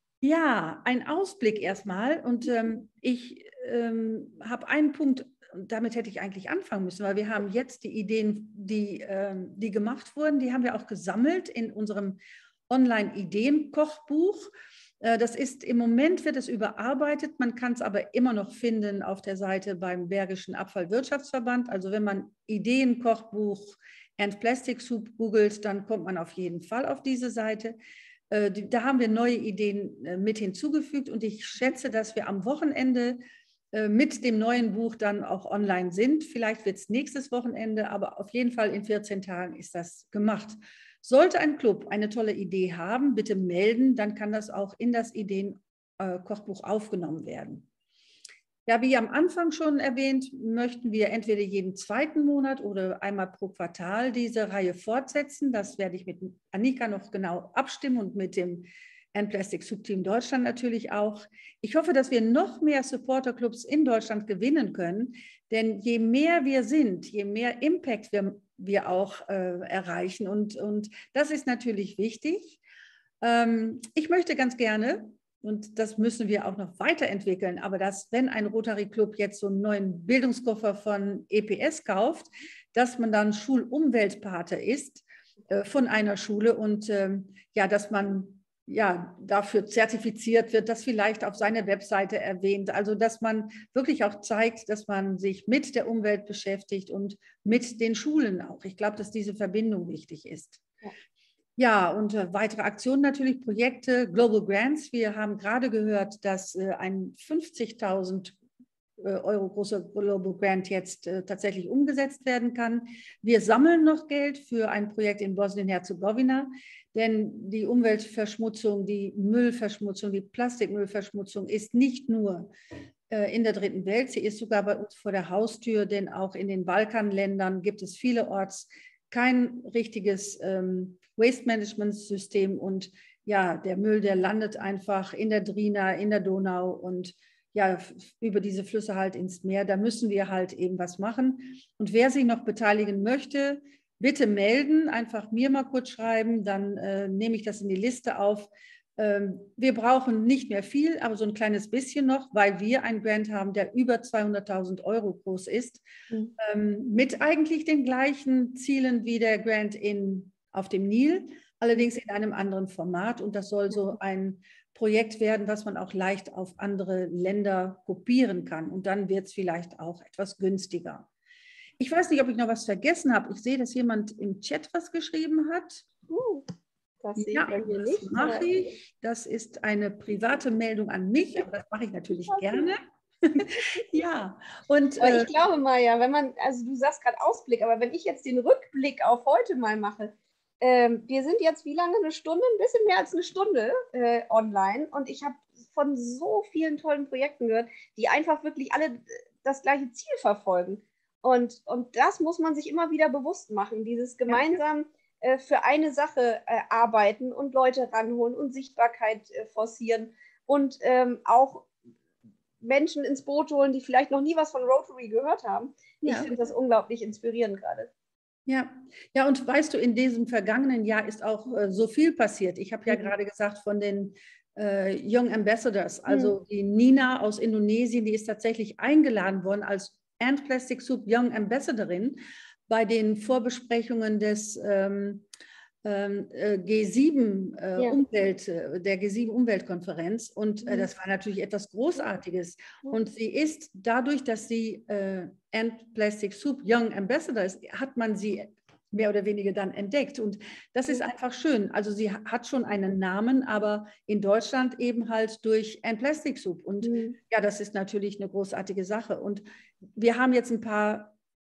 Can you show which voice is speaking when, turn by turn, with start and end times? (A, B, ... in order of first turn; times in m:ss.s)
0:00.2-0:14.5 A
0:15.0-0:27.8 A
0:28.3-0:33.2 A
0:33.7-0:47.6 A
0:48.6-1:12.6 A
1:13.2-1:40.6 A
1:41.6-1:48.4 A
1:49.0-2:02.5 A
2:03.1-2:35.8 A
2:36.4-2:51.1 A
2:51.8-2:55.8 A
2:56.1-2:56.5 B
2:57.0-2:58.6 B
2:57.2-3:05.3 A
3:02.3-3:02.7 B
3:05.0-3:31.7 B
3:24.3-3:24.5 A
3:32.6-3:37.9 B
3:36.0-3:36.3 A
3:38.5-3:55.2 A
3:42.9-3:43.1 B
3:46.1-3:46.3 B
3:55.8-4:19.4 A
4:00.6-4:00.9 B
4:16.8-4:17.2 B
4:20.0-4:21.1 A